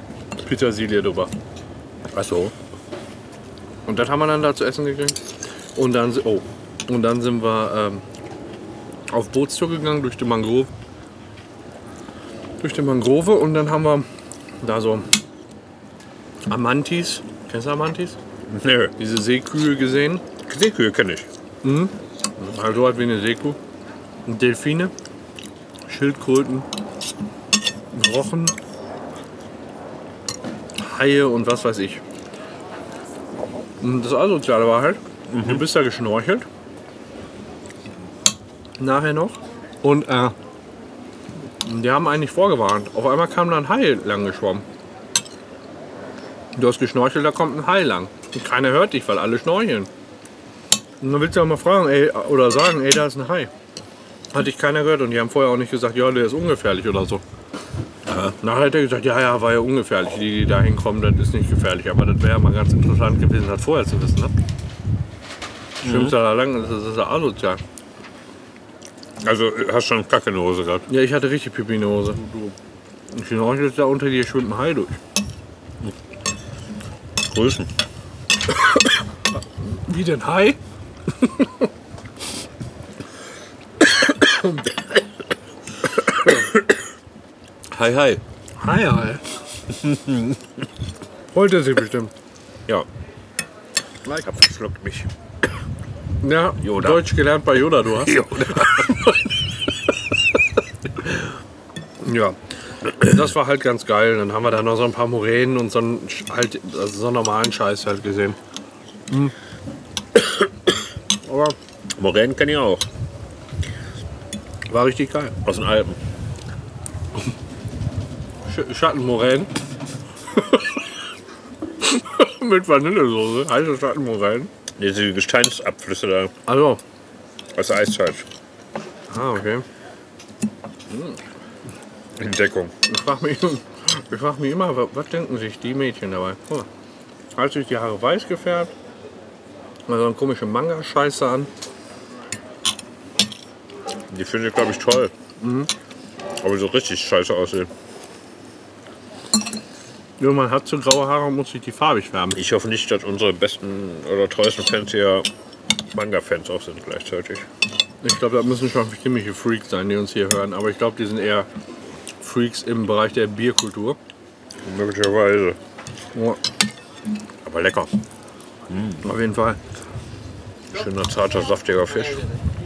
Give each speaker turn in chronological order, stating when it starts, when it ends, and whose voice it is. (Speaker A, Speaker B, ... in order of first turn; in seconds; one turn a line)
Speaker A: 0.4-1.3
Speaker B: 2.1-2.5
Speaker A: 3.9-5.2
Speaker A: 5.8-8.0
Speaker A: 9.1-10.7
Speaker A: 12.6-14.1
Speaker A: 14.6-15.1
Speaker A: 16.5-18.2
Speaker B: 18.5-18.9
Speaker A: 19.0-20.2
Speaker B: 20.4-21.3
Speaker A: 21.6-23.6
Speaker A: 24.3-24.9
Speaker A: 25.9-26.7
Speaker A: 27.9-28.6
Speaker A: 30.8-32.0
Speaker A: 33.8-36.5
Speaker B: 35.3-35.6
Speaker A: 38.8-40.4
Speaker A: 41.6-44.6
Speaker A: 46.5-49.9
Speaker A: 51.0-53.5
Speaker A: 54.3-57.2
Speaker B: 58.1-58.4
Speaker A: 58.4-64.3
Speaker B: 65.8-66.2
Speaker A: 65.8-67.6
Speaker B: 69.2-70.9
Speaker A: 70.9-72.6
Speaker A: 73.1-75.0
Speaker B: 77.3-77.7
Speaker A: 79.6-80.6
Speaker A: 81.2-81.7
Speaker A: 84.2-84.7
Speaker A: 86.1-86.4
Speaker B: 87.7-88.2
Speaker A: 88.6-89.2
Speaker B: 89.7-90.4
Speaker A: 91.3-92.1
Speaker B: 94.0-95.1
Speaker A: 96.2-98.7
Speaker B: 96.6-97.1
Speaker B: 98.0-99.2
Speaker A: 102.0-102.4
Speaker A: 102.9-108.4
Speaker A: 109.1-109.3
Speaker A: 111.2-111.6
Speaker B: 112.0-112.9
Speaker A: 114.7-115.3
Speaker B: 115.4-116.0
Speaker A: 118.5-119.5
Speaker A: 120.3-120.8
Speaker A: 121.8-124.5
Speaker B: 124.8-126.3
Speaker A: 126.5-126.8
Speaker B: 127.5-128.3
Speaker A: 129.1-129.7
Speaker A: 130.9-131.2
Speaker B: 132.2-132.7
Speaker A: 132.9-136.7
Speaker A: 137.4-138.7
Speaker A: 139.9-141.5
Speaker B: 144.1-145.1
Speaker A: 145.4-145.7
Speaker B: 146.4-147.7
Speaker A: 150.2-152.4
Speaker B: 152.3-155.3
Speaker B: 155.9-157.5
Speaker A: 158.0-161.5
Speaker A: 162.2-164.0
Speaker B: 164.6-165.6
Speaker A: 166.2-166.4
Speaker B: 167.4-167.9
Speaker B: 168.7-169.1
Speaker A: 169.0-169.6
Speaker B: 170.7-172.3